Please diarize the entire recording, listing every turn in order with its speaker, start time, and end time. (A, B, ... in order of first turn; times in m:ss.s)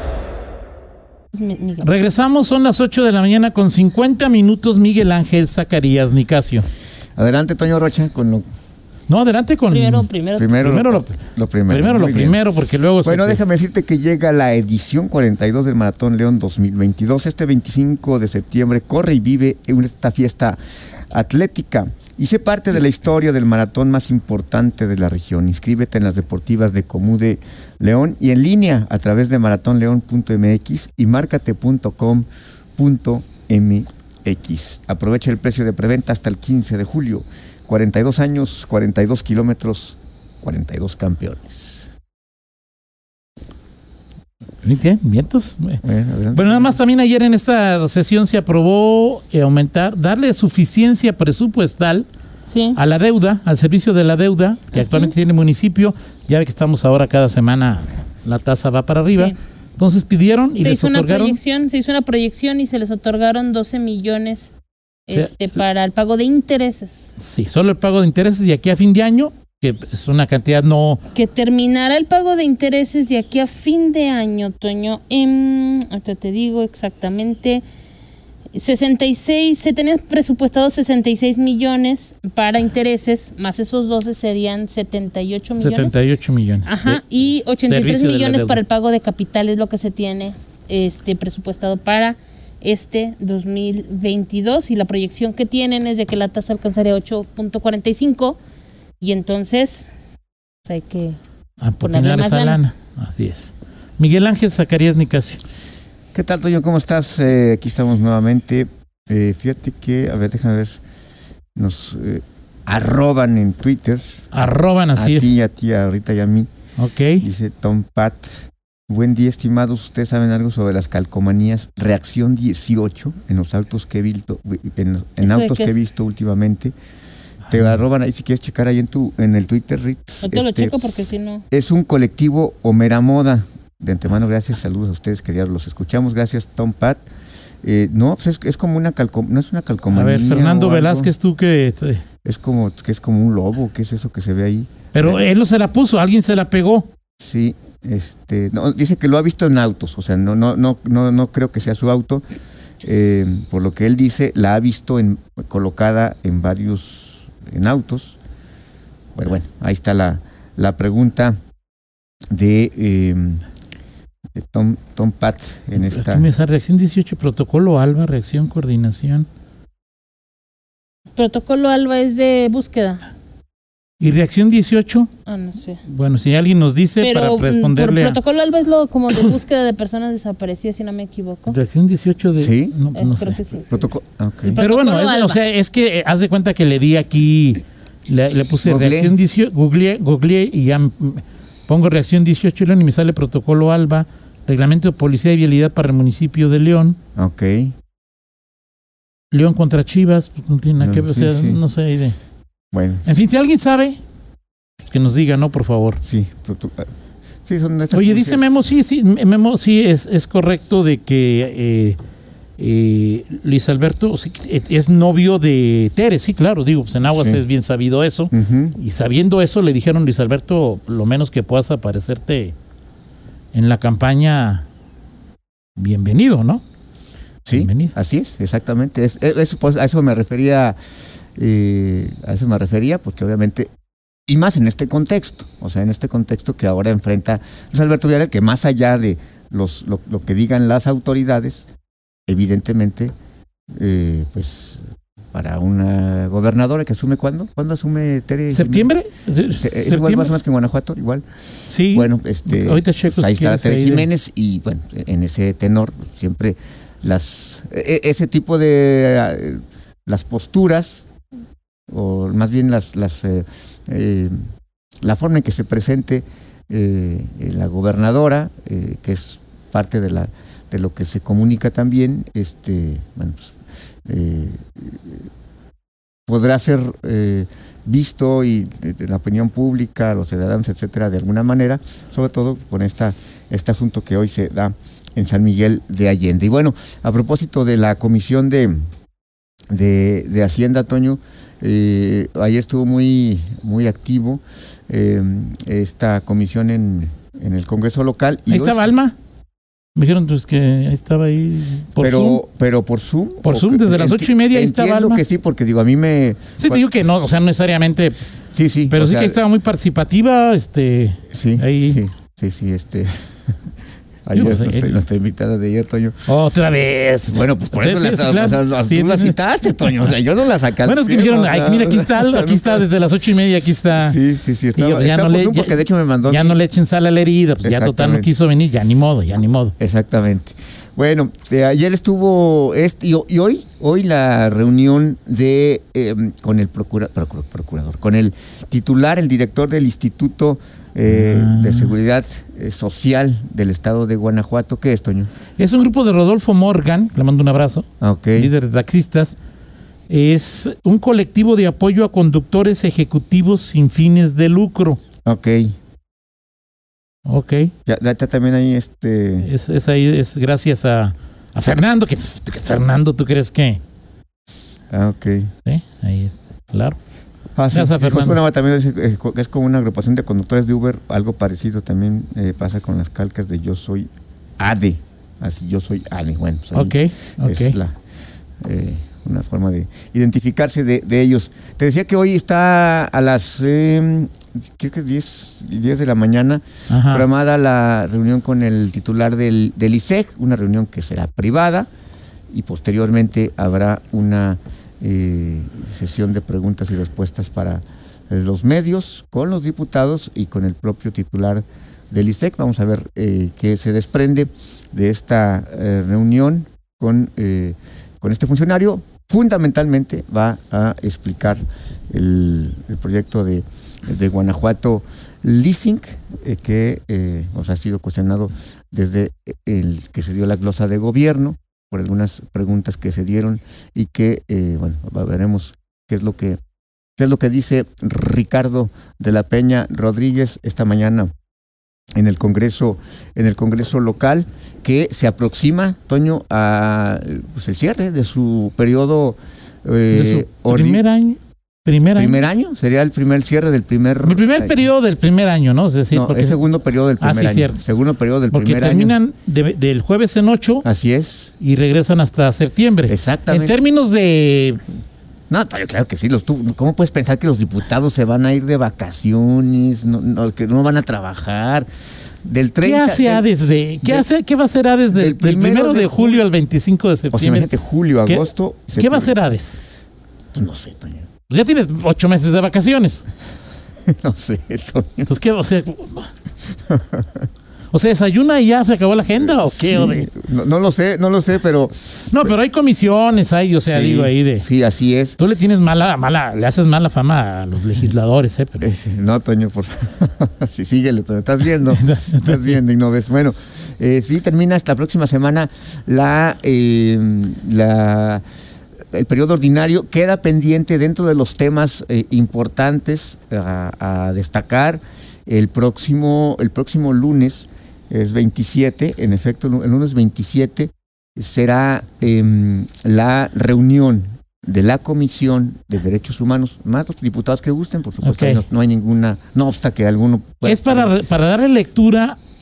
0:01.3-0:02.0 A
0:01.8-0:06.6 B
0:07.2-0:08.4 C
0:09.1-0:11.2 B
0:09.7-0:10.5 A
0:10.3-0:12.5 C
0:11.7-0:13.4 B
0:13.0-0:20.6 C
0:21.1-0:41.9 C
0:44.6-0:52.1 B
0:45.8-0:46.8 C
0:52.4-0:52.8 A
0:52.7-1:01.4 B
0:54.8-0:55.1 A
0:59.1-0:59.4 A
1:00.6-1:04.5 A
1:05.1-1:07.1 A
1:07.2-1:11.0 B
1:11.1-1:17.6 A
1:18.5-1:26.0 A
1:25.6-1:27.0 B
1:26.6-1:38.4 A
1:27.7-1:28.6 B
1:39.0-1:39.9 A
1:40.6-1:41.2 A
1:41.6-1:45.4 B
1:41.8-1:42.6 A
1:46.1-1:50.8 C
1:51.5-1:54.3 C
1:54.3-1:55.3 B
1:54.9-1:56.5 C
1:56.8-1:57.2 B
1:57.2-2:06.7 C
2:05.2-2:05.8 A
2:07.5-2:10.9 C
2:10.2-2:11.4 A
2:11.5-2:17.0 C
2:17.6-2:21.1 C
2:19.9-2:22.0 B
2:22.2-2:25.2 C
2:24.9-2:26.9 B
2:27.2-2:32.2 C
2:32.8-2:38.2 C
2:39.1-2:41.4 C
2:42.3-2:43.4 C
2:44.3-2:46.3 C
2:45.8-2:49.3 B
2:51.2-2:53.0 A
2:54.0-2:55.1 B
2:55.3-2:55.8 A
2:55.8-2:58.2 B
2:57.0-3:01.6 A
3:01.5-3:03.4 B
3:02.4-3:02.8 C
3:02.9-3:03.8 A
3:03.7-3:04.6 C
3:04.5-3:05.4 A
3:04.5-3:17.0 B
3:08.6-3:09.2 C
3:17.2-3:17.7 C
3:19.3-3:22.2 B
3:20.8-3:21.6 C
3:22.7-3:23.0 C
3:23.0-3:24.0 B
3:24.9-3:26.0 B
3:26.0-3:26.9 C
3:27.4-3:28.4 C
3:27.9-3:32.0 B
3:32.6-3:42.5 B
3:37.1-3:37.4 C
3:38.3-3:38.8 C
3:43.5-3:44.6 B
3:45.8-3:46.6 B
3:47.4-3:50.8 C
3:47.5-3:47.9 B
3:51.4-3:53.7 C
3:54.3-4:01.6 C
4:02.3-4:03.1 C
4:03.8-4:08.9 C
4:08.5-4:10.4 B
4:09.5-4:11.2 C
4:11.7-4:14.1 B
4:11.9-4:21.0 C
4:21.9-4:24.3 C
4:25.0-4:33.5 C
4:34.0-4:35.3 C
4:36.3-4:48.8 C
4:49.7-4:58.9 C
4:58.5-4:59.2 B
4:59.9-5:02.4 B
5:02.0-5:06.8 C
5:03.4-5:05.2 B
5:06.6-5:08.2 B
5:08.5-5:09.4 C
5:08.9-5:12.0 B
5:11.3-5:13.3 C
5:14.2-5:16.3 C
5:14.3-5:14.9 B
5:16.2-5:20.1 B
5:17.3-5:22.9 C
5:20.8-5:24.2 B
5:23.9-5:26.6 C
5:24.7-5:29.7 B
5:27.6-5:28.3 C
5:29.8-5:45.3 C
5:41.1-5:41.9 B
5:45.6-5:49.3 B
5:48.0-5:48.5 C
5:50.1-5:55.0 B
5:55.2-5:55.8 C
5:57.2-5:57.7 B
5:57.9-5:59.5 C
5:59.4-6:03.8 B
6:04.9-6:05.5 C
6:05.6-6:07.0 B
6:07.6-6:18.0 C
6:07.7-6:08.4 B
6:16.7-6:17.8 B
6:18.6-6:31.9 C
6:26.9-6:27.2 B
6:32.5-7:06.6 C
7:07.2-7:11.3 C
7:12.2-7:21.0 C
7:20.1-7:22.4 B
7:22.2-7:24.8 C
7:24.2-7:26.6 B
7:26.1-7:29.2 C
7:27.2-7:27.8 B
7:28.5-7:30.8 B
7:30.8-7:31.5 C
7:31.6-7:34.8 B
7:33.0-7:33.8 C
7:35.5-7:41.9 C
7:42.4-7:43.5 C
7:42.8-7:47.7 B
7:44.0-7:44.3 C
7:45.1-7:46.4 C
7:47.3-7:49.4 C
7:48.2-7:49.7 B
7:50.5-7:51.2 C
7:51.5-7:53.2 B
7:54.1-7:55.3 C
7:55.2-7:56.3 B
7:56.9-7:57.4 C
7:57.9-8:00.3 B
7:59.4-8:02.5 C
8:02.3-8:04.7 B
8:03.8-8:05.4 C
8:05.4-8:08.8 B
8:08.8-8:18.4 C
8:11.9-8:12.8 B
8:19.1-8:41.1 C
8:38.2-8:38.6 B
8:40.6-8:42.4 B